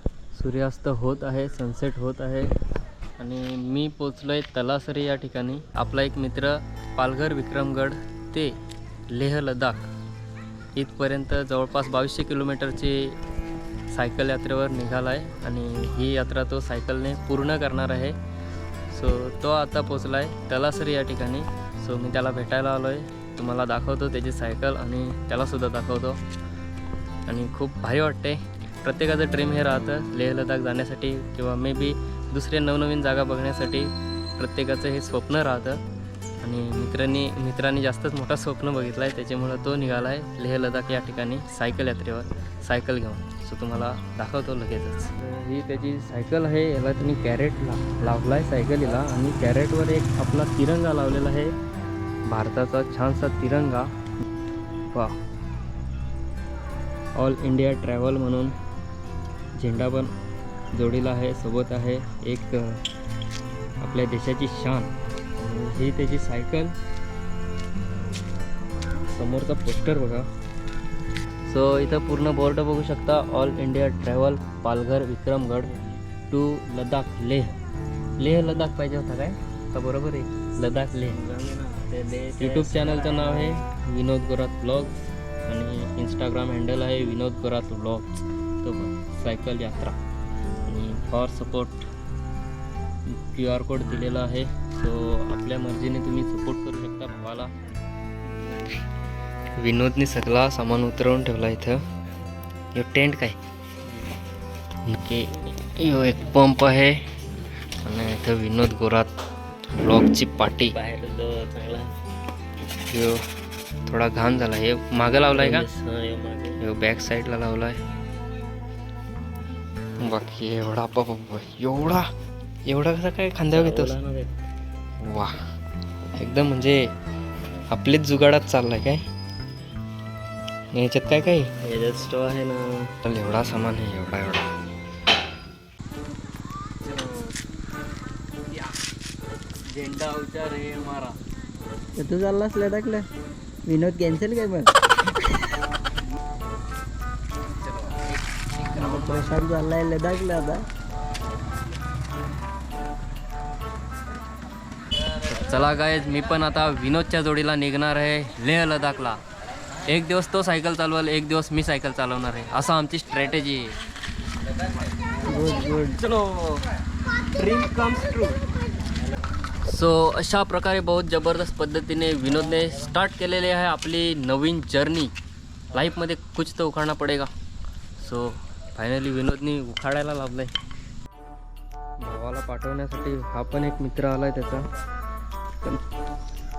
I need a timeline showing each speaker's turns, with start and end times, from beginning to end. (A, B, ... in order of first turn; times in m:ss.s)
0:00.3-0:02.5 A
0:03.2-0:08.6 A
0:09.1-0:09.9 A
0:10.7-0:13.2 A
0:13.9-0:18.2 A
0:18.9-0:26.2 A
0:27.3-0:35.8 A
0:36.4-0:51.5 A
0:52.3-0:53.9 A
0:54.9-0:55.2 A
0:57.1-0:58.5 A
0:59.6-1:00.1 A
1:00.7-1:02.8 A
1:03.8-1:06.7 A
1:09.1-1:10.3 A
1:11.5-1:15.7 A
1:16.3-1:17.6 A
1:18.2-1:21.2 A
1:21.1-1:23.5 B
1:22.4-1:30.0 A
1:30.6-1:31.9 A
1:33.1-1:37.5 A
1:39.5-1:41.8 A
1:42.7-1:43.4 A
1:44.9-1:47.0 A
1:47.8-1:49.1 A
1:49.7-1:50.8 A
1:50.7-1:51.9 B
1:52.9-1:53.2 A
1:53.8-1:55.7 A
1:55.3-1:56.6 B
1:56.6-1:57.8 A
2:00.0-2:02.1 A
2:02.6-2:04.0 A
2:03.5-2:04.3 B
2:05.0-2:05.4 A
2:06.1-2:06.8 A
2:07.7-2:09.0 A
2:10.7-2:11.5 A
2:11.6-2:12.9 B
2:13.0-2:14.5 A
2:16.8-2:17.1 A
2:19.8-2:21.1 A
2:22.0-2:23.0 C
2:23.6-2:25.5 C
2:27.6-2:29.4 A
2:28.7-2:30.6 C
2:35.3-2:39.2 A
2:39.9-2:43.7 A
2:45.2-2:46.0 C
2:46.0-2:46.6 B
2:47.4-2:48.4 B
2:49.6-2:55.1 A
2:55.7-2:57.3 A
2:58.0-3:00.5 A
3:02.0-3:04.7 A